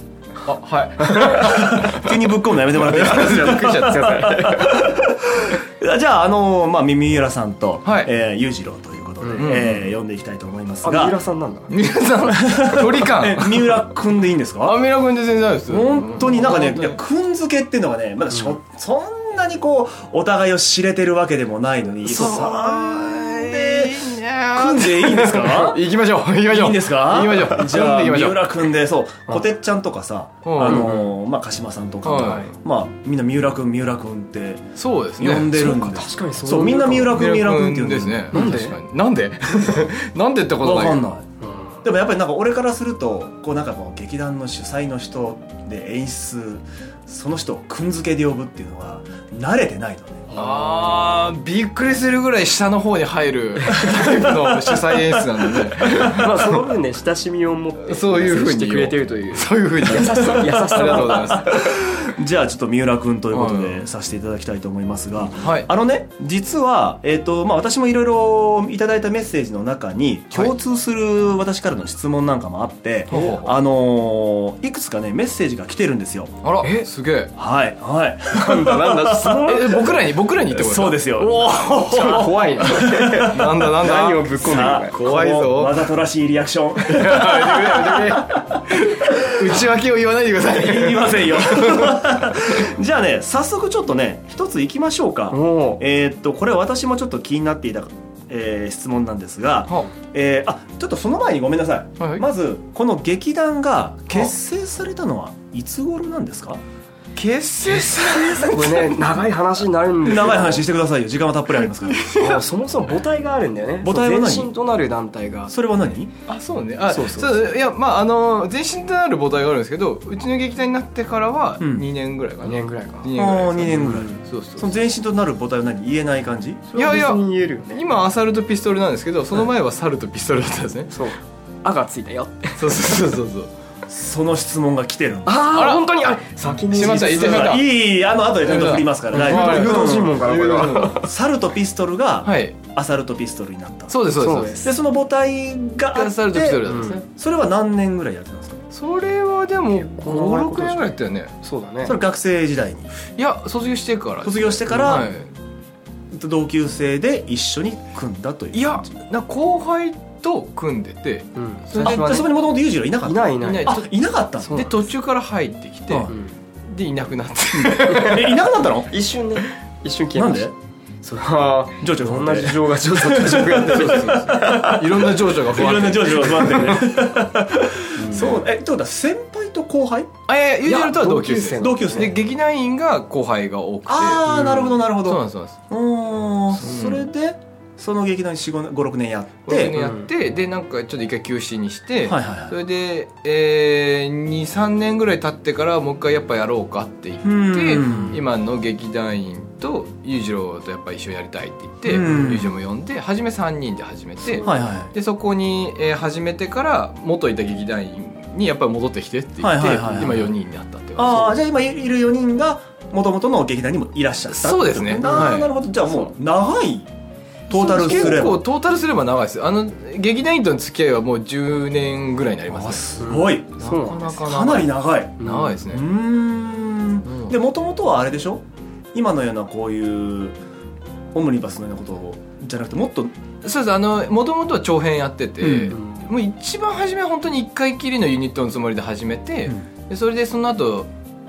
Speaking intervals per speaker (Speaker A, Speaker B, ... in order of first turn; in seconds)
Speaker A: 0.4-4.3, 7.8-8.1, 9.4-9.8, 11.7-13.9, 14.6-17.0, 22.1-28.6, 30.4-31.1, 32.0-32.5, 34.8-35.6, 37.1-41.0, 50.4-56.5, 57.9-61.8, 63.3-63.8, 65.4-65.7, 73.1-73.5, 76.4-77.3, 79.5-81.0, 81.9-85.9, 86.9-92.1, 102.0-102.2, 107.2-109.1, 111.9-112.4, 116.3-124.8, 126.7-130.9, 132.6-133.5, 135.5-135.9, 136.7-137.7, 138.4-141.0, 142.2-142.6, 143.9-144.6, 145.9-147.1, 148.7-151.3, 153.2-155.3, 158.5-162.2, 163.4-163.9, 164.5-166.1, 166.7-168.2, 173.4-176.9, 180.3-185.6, 186.5-187.0, 189.5-211.4, 214.3-215.6, 217.5-225.8, 227.1-227.3, 233.4-240.9
Speaker B: 1.1-1.5, 3.2-4.9, 9.2-9.7, 10.8-11.8, 35.5-37.3, 38.3-38.8, 41.5-41.8, 50.4-50.9, 55.9-61.6, 73.1-73.5, 76.6-76.9, 78.3-80.0, 81.2-85.0, 95.3-95.8, 107.8-110.7, 112.2-115.5, 116.9-117.5, 122.4-123.1, 123.7-124.0, 126.7-127.8, 130.9-133.1, 135.3-137.6, 138.6-141.1, 144.2-144.7, 146.7-147.0, 150.0-152.0, 154.7-155.0, 161.3-162.4, 163.0-163.8, 164.4-164.8, 167.9-168.3, 168.9-175.1, 178.0-178.4, 180.6-182.1, 184.3-184.8, 189.8-190.1, 197.8-198.2, 204.2-204.6, 217.9-218.1, 223.0-224.0, 225.2-225.6
Speaker C: 1.2-11.2, 12.4-14.8, 15.7-24.0, 24.6-25.8, 26.5-34.6, 35.2-38.4, 40.6-41.2, 41.8-50.3, 53.8-55.2, 60.0-76.4, 77.4-79.7, 80.5-89.6, 90.5-106.6, 110.0-112.2, 113.8-114.5, 115.5-116.1, 121.6-121.9, 123.2-126.7, 133.9-135.4, 136.7-140.2, 140.9-144.0, 144.6-148.6, 151.8-152.9, 154.2-155.1, 156.1-158.9, 161.7-164.6, 165.9-166.2, 167.6-168.9, 170.2-170.5, 171.8-180.1, 181.6-182.2, 183.9-189.8, 192.1-192.6, 197.2-198.2, 201.9-202.5, 204.4-204.9, 209.4-210.3, 211.0-216.9, 217.5-218.4, 222.5-223.6, 224.1-230.4, 231.1-233.2, 235.4-235.8